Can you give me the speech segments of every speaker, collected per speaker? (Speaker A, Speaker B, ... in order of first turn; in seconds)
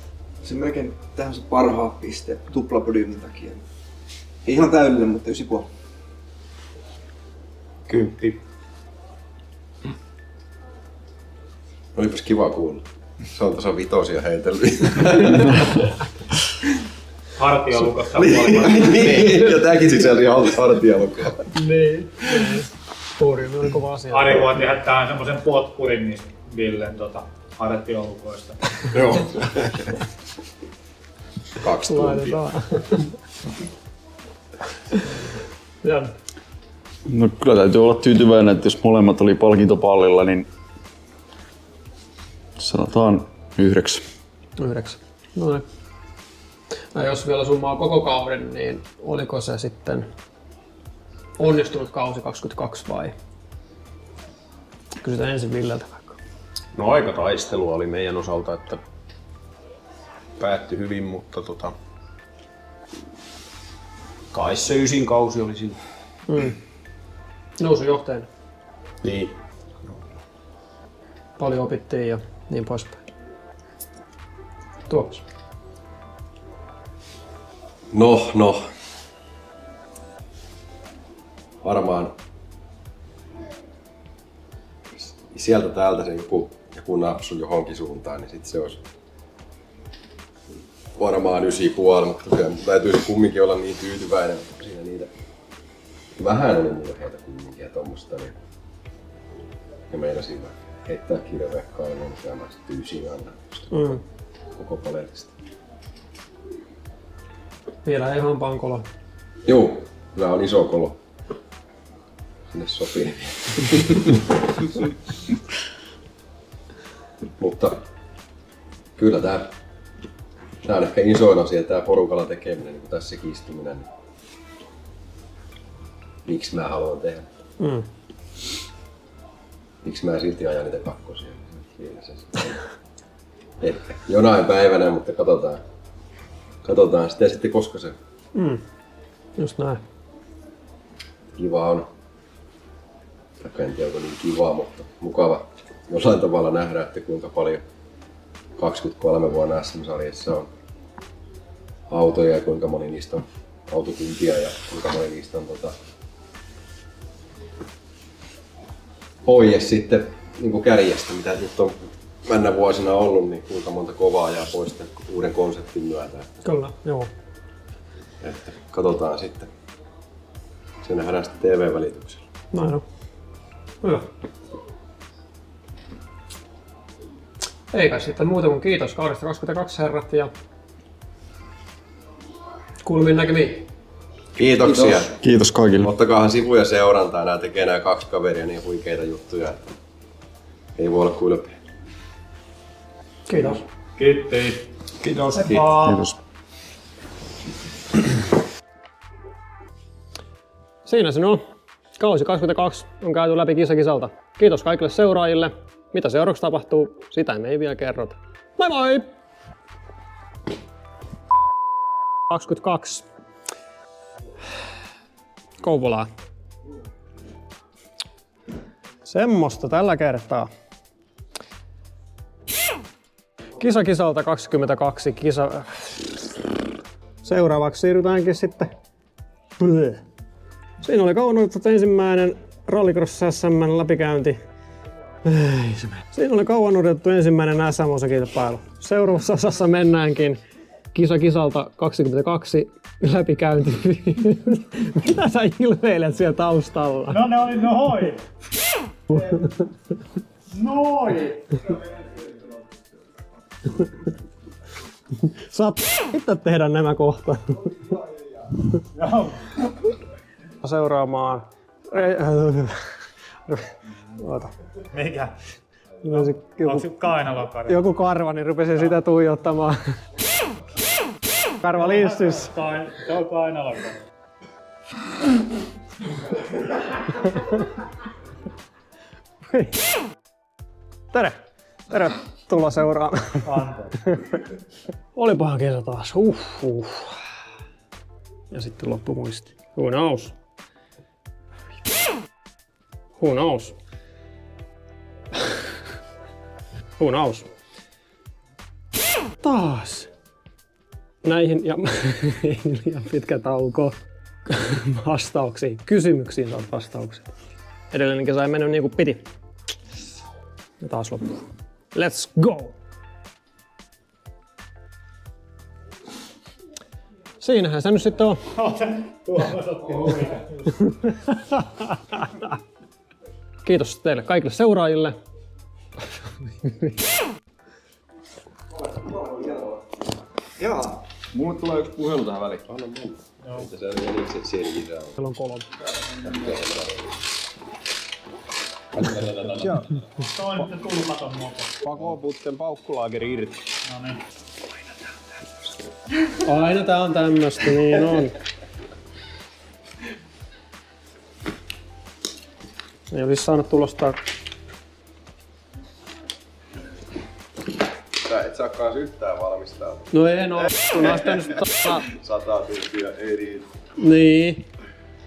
Speaker A: 0.4-3.6, 4.5-5.7, 328.9-329.9, 330.6-331.0
Speaker B: 7.9-8.4, 29.1-29.4, 56.8-58.8, 60.4-61.7, 64.3-65.8, 69.0-70.0, 195.0-196.2, 331.4-332.6, 339.0-339.9, 341.8-343.6
Speaker C: 11.9-15.8, 18.2-21.5, 31.6-32.4, 77.9-78.7, 81.6-82.1, 84.9-88.8, 91.0-95.1, 96.2-98.4, 99.9-104.0, 104.5-105.3, 109.5-111.0, 112.5-114.3, 117.4-117.8, 119.0-119.5, 120.6-123.9, 126.2-127.3, 129.8-132.6, 133.6-135.6, 136.6-138.0, 141.3-141.9, 143.4-147.6, 148.6-150.5, 151.9-155.8, 159.2-166.3, 168.2-169.5, 170.8-172.3, 184.4-185.2, 185.8-189.8, 190.8-191.6, 333.5-335.2, 336.2-337.1, 358.2-361.5, 362.0-363.7
Speaker D: 17.4-19.3, 24.1-29.0, 194.0-194.7, 247.1-248.2, 249.1-249.4, 250.5-251.9, 258.9-259.6, 264.9-265.3, 266.1-267.8, 271.8-274.0, 283.4-284.1, 318.6-320.7, 333.4-333.7, 340.2-341.7, 343.9-344.2
Speaker E: 21.5-24.5, 31.8-33.1, 35.8-36.1, 44.6-45.6, 46.9-50.1, 51.4-53.1, 55.0-56.2, 66.3-66.6, 67.6-68.3, 71.4-73.0, 74.9-75.2, 103.7-104.0, 107.8-108.9, 127.6-127.9, 138.3-138.6, 139.4-139.8, 166.4-167.1, 172.5-172.8, 177.7-180.3, 182.8-183.7, 193.3-193.6, 195.4-196.0, 200.8-201.4, 202.0-209.1, 212.3-213.1, 215.6-216.1, 219.1-220.5, 223.6-226.3, 227.2-228.7, 229.6-230.0, 230.8-234.4, 235.2-240.4, 240.9-247.3, 249.1-249.4, 255.3-257.8, 260.6-262.9, 263.5-264.5, 266.0-266.9, 267.7-270.0, 271.6-272.5, 277.3-277.5, 279.5-279.8, 281.1-283.5, 285.2-287.2, 288.5-290.4, 293.2-293.8, 297.0-297.5, 299.4-300.1, 301.2-307.4, 307.9-309.3, 310.8-311.4, 311.9-312.8, 317.4-318.4, 320.8-322.5, 323.6-325.2, 326.6-327.0, 335.2-335.7, 346.4-348.4, 353.1-354.2, 360.1-362.1, 364.0-364.6
Speaker F: 37.1-40.5, 42.6-44.0, 185.2-185.9, 331.4-332.4